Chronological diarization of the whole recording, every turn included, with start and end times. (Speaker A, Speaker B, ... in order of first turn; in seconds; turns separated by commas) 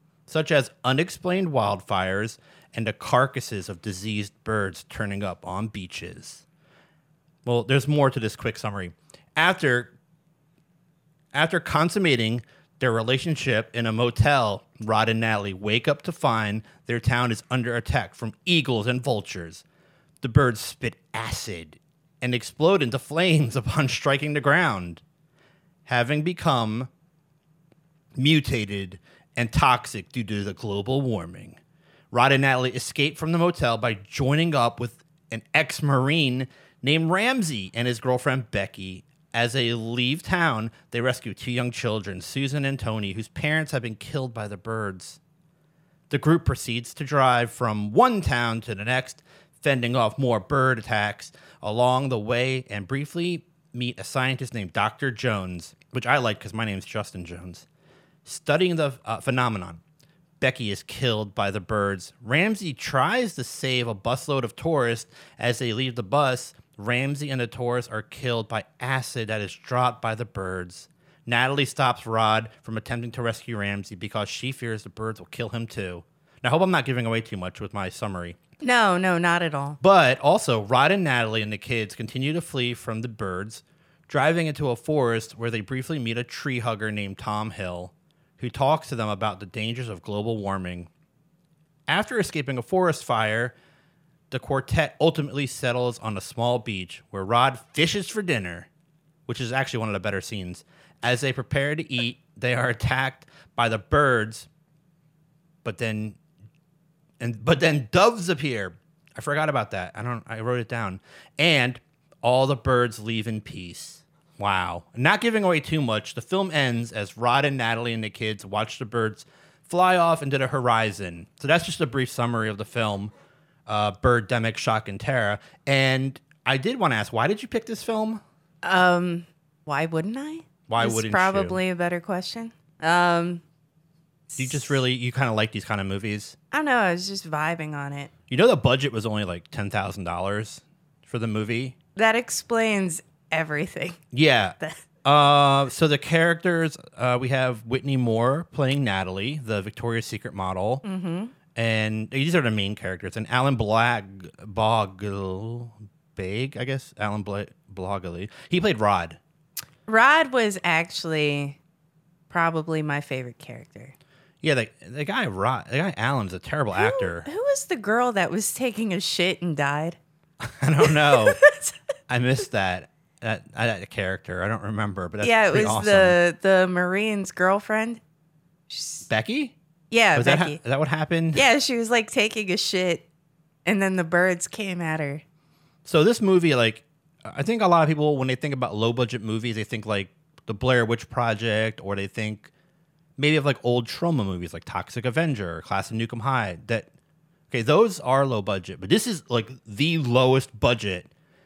Speaker A: 0.3-6.4, Speaker A: 7.4-9.9, Speaker A: 11.3-19.6, Speaker A: 20.2-25.0, Speaker A: 25.9-26.9, Speaker A: 28.1-31.6, Speaker A: 32.1-45.2, Speaker A: 46.1-57.6, Speaker A: 58.2-59.8, Speaker A: 60.4-78.4, Speaker B: 78.6-79.8, Speaker A: 79.8-90.9, Speaker A: 91.9-93.5, Speaker A: 94.3-98.7, Speaker A: 99.3-104.5, Speaker A: 105.6-106.2, Speaker A: 107.2-123.1, Speaker A: 123.7-128.2, Speaker B: 128.6-133.4, Speaker A: 130.7-131.6, Speaker B: 134.3-134.8, Speaker A: 134.4-136.3, Speaker B: 136.5-138.1, Speaker A: 138.3-141.7, Speaker B: 141.9-144.0, Speaker A: 144.1-150.8, Speaker B: 150.8-151.3, Speaker A: 151.5-159.2, Speaker B: 159.9-161.6, Speaker B: 162.3-163.9, Speaker A: 164.4-167.3, Speaker B: 166.7-170.0, Speaker A: 170.4-171.4, Speaker B: 170.8-171.7, Speaker A: 172.1-176.2, Speaker B: 175.2-178.0, Speaker B: 178.7-179.1, Speaker A: 179.1-179.5, Speaker B: 179.9-180.6, Speaker A: 180.1-181.4, Speaker B: 181.3-183.0, Speaker B: 183.6-185.2, Speaker A: 185.8-192.5, Speaker A: 193.2-196.9, Speaker A: 197.5-201.1